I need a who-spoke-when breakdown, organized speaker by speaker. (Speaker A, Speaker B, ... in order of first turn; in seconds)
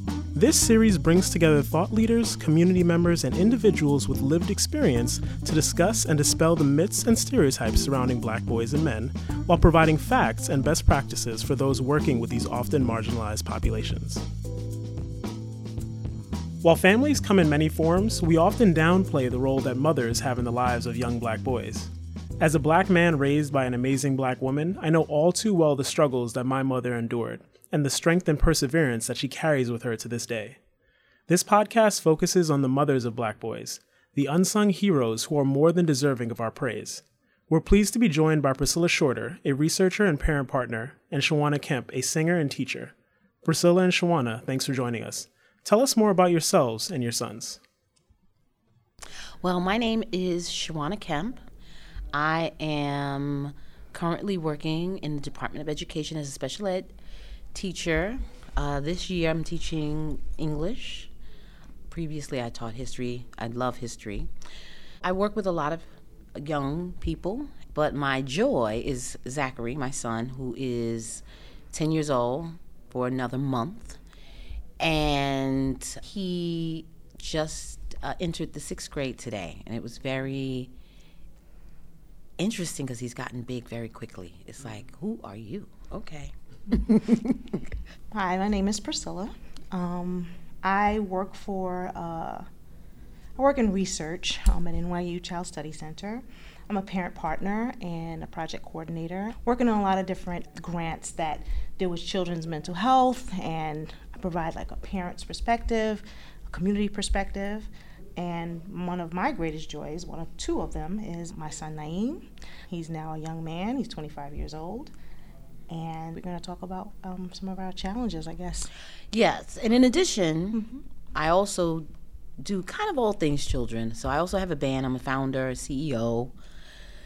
Speaker A: 0.3-14.2, 16.6-30.6, 31.3-42.9, 43.5-47.6
Speaker B: 49.4-51.4, 52.1-56.9, 57.5-61.1, 61.9-64.3, 65.0-74.0, 74.8-80.7, 82.4-87.7, 119.1-121.9, 122.4-126.3
Speaker C: 88.1-92.5, 93.4-114.9, 115.7-118.7, 120.5-120.8